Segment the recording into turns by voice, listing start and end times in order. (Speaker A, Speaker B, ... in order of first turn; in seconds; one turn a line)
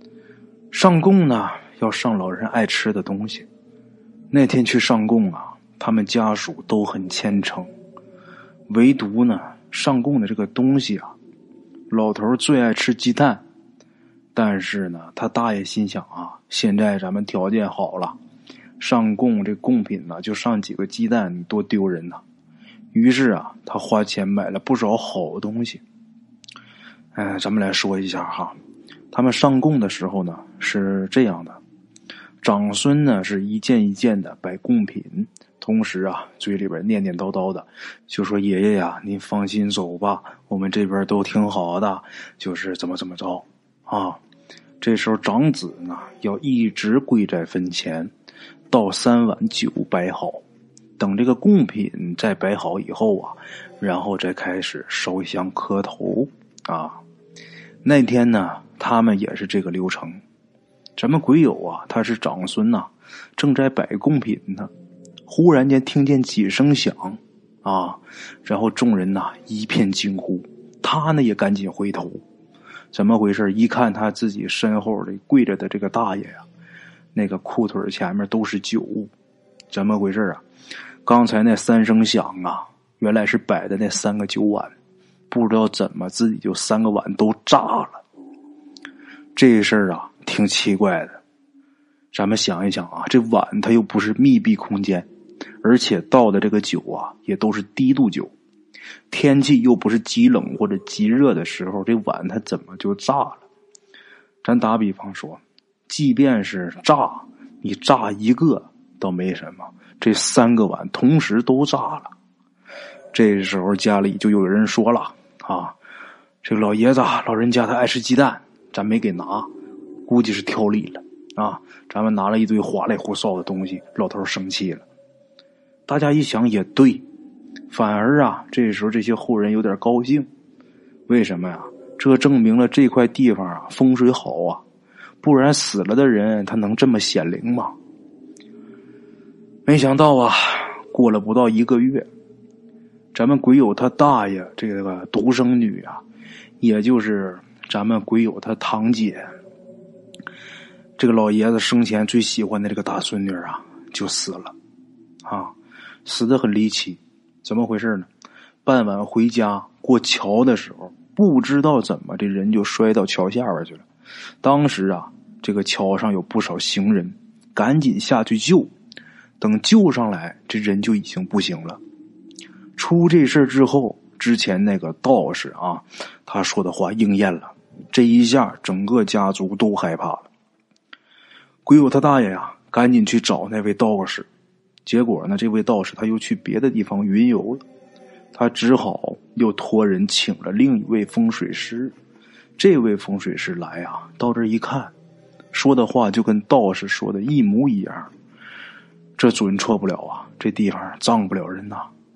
Speaker A: 0.7-3.5
Speaker A: 4.3-7.7
Speaker A: 8.7-11.1
Speaker A: 11.9-13.4
Speaker A: 14.3-18.2
Speaker A: 18.8-22.2
Speaker A: 22.9-25.8
Speaker A: 27.1-28.6
Speaker A: 29.1-31.6
Speaker A: 32.4-44.2
Speaker A: 44.8-48.1
Speaker A: 48.7-50.4
Speaker A: 51.0-57.0
Speaker A: 57.8-60.2
Speaker A: 61.0-64.7
Speaker A: 65.3-72.2
Speaker A: 72.9-76.4
Speaker A: 77.1-79.1
Speaker A: 79.7-80.4
Speaker A: 81.0-84.7
Speaker A: 85.3-88.0
Speaker A: 89.3-91.2
Speaker A: 92.1-95.1
Speaker A: 95.6-98.3
Speaker A: 99.1-103.5
Speaker A: 104.4-112.1
Speaker A: 113.1-115.8
Speaker A: 116.4-119.5
Speaker A: 120.1-124.8
Speaker A: 125.9-127.0
Speaker A: 127.7-130.3
Speaker A: 131.1-134.6
Speaker A: 135.2-137.7
Speaker A: 139.7-142.1
Speaker A: 143.1-146.0
Speaker A: 146.6-149.3
Speaker A: 151.0-154.6
Speaker A: 155.2-155.5
Speaker A: 156.1-158.1
Speaker A: 158.7-163.8
Speaker A: 164.4-168.7
Speaker A: 169.4-171.8
Speaker A: 172.8-180.3
Speaker A: 181.7-184.3
Speaker A: 184.8-187.6
Speaker A: 188.3-191.9
Speaker A: 192.6-194.9
Speaker A: 195.5-198.1
Speaker A: 199.2-201.9